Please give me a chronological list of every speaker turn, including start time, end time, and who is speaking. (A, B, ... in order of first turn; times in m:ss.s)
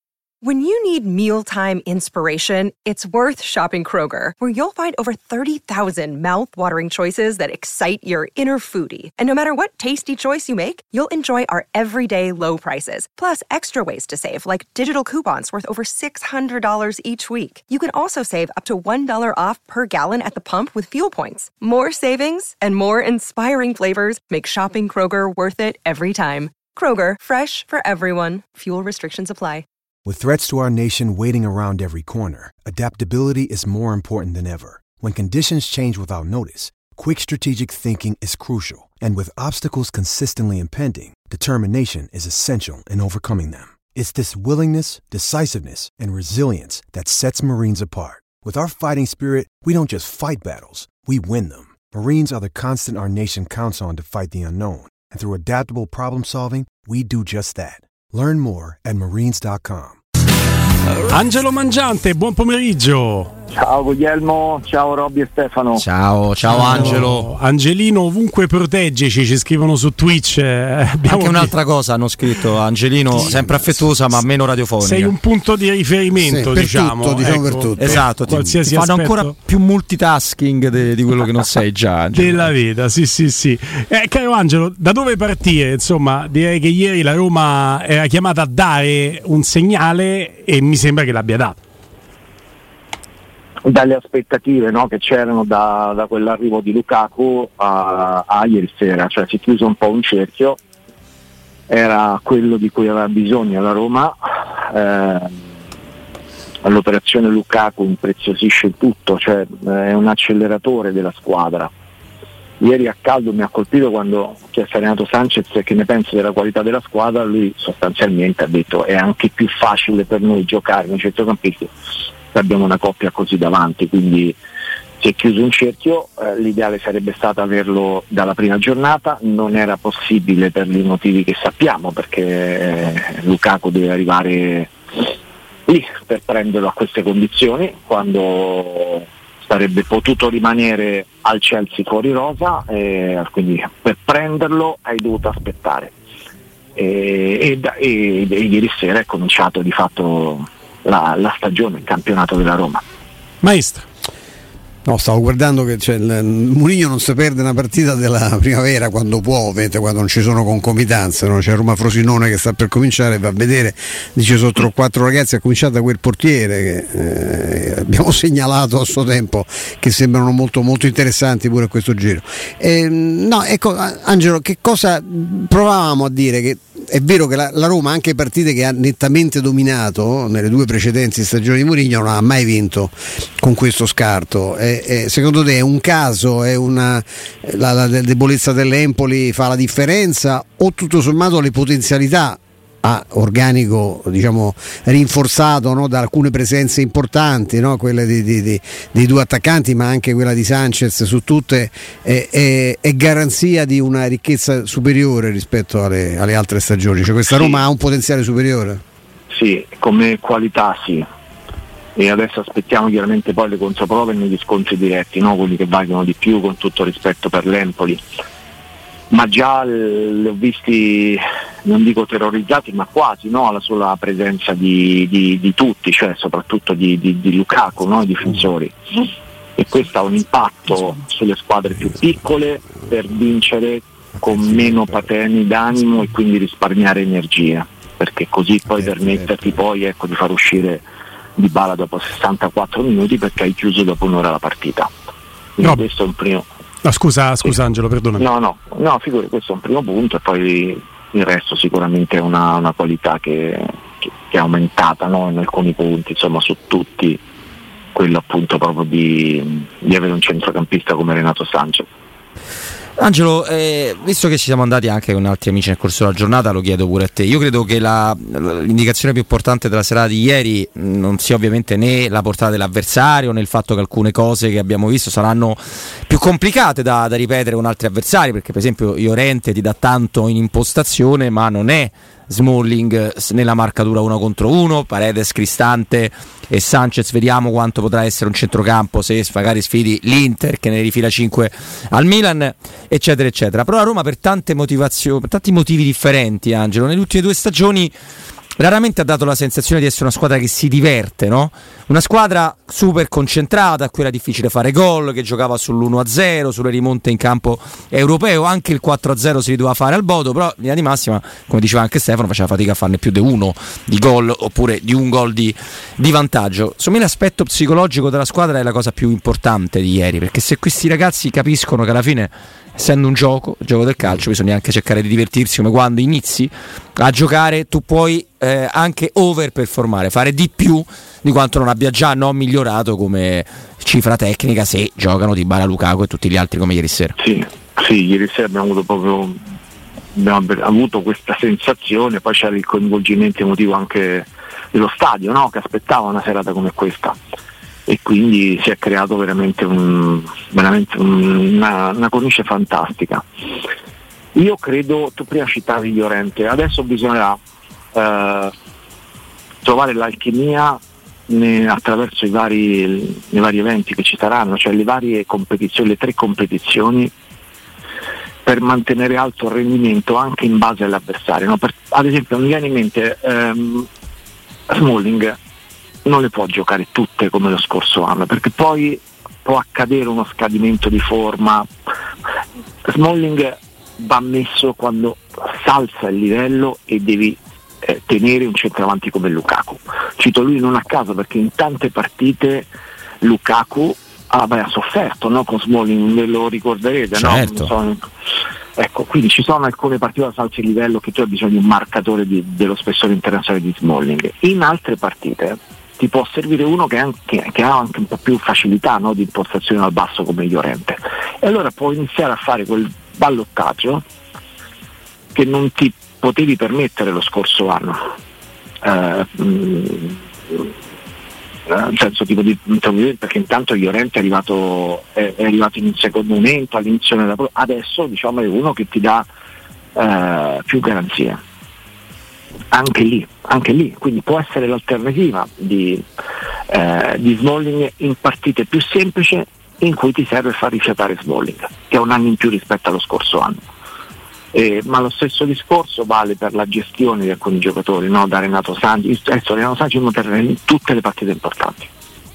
0:00.4-0:29.6 A
0:30.0-1:00.0 B
1:01.0-1:03.3 C
1:03.5-1:05.8 D
1:05.8-1:07.3 E
1:06.5-1:11.5 C
1:11.0-1:15.2 E
1:13.2-1:13.6 F
1:14.8-1:19.4 C
1:16.2-1:18.4 F
1:17.8-1:22.5 E
1:22.1-1:31.6 C
1:33.6-1:40.6 D
1:41.7-1:45.4 D
1:46.6-1:51.7 D
1:52.6-2:01.7 D
2:02.3-2:04.4 D
2:05.0-2:14.7 D
2:15.7-2:25.9 D
2:26.8-2:32.8 D
2:33.4-2:33.9 C
2:34.9-3:28.8 F
3:27.3-3:27.6 D
3:29.3-3:31.1 D
3:32.0-3:38.0 D
3:39.1-4:00.8 D
3:54.2-3:55.0 F
3:58.7-3:59.6 F
4:01.4-4:04.9 D
4:05.6-4:06.5 D
4:06.8-4:08.3 C
4:08.2-4:17.2 D
4:18.0-4:21.9 D
4:23.0-4:57.9 E
4:58.6-5:37.2 E
5:37.2-5:39.4 D
5:40.2-5:47.2 D
5:47.9-5:53.2 D
5:54.4-5:57.4 D
5:57.9-5:58.5 D
5:59.6-6:07.1 D
6:08.4-6:13.9 D
6:14.7-6:15.4 D
6:16.0-6:21.7 D
6:22.9-6:38.0 D
6:37.2-6:37.7 E
6:38.8-6:54.0 D
6:55.3-6:58.0 D
6:58.8-7:00.7 D
7:01.7-7:09.3 D
7:10.0-7:11.4 D
7:12.7-7:16.0 D
7:16.7-7:23.6 D
7:24.5-7:31.9 D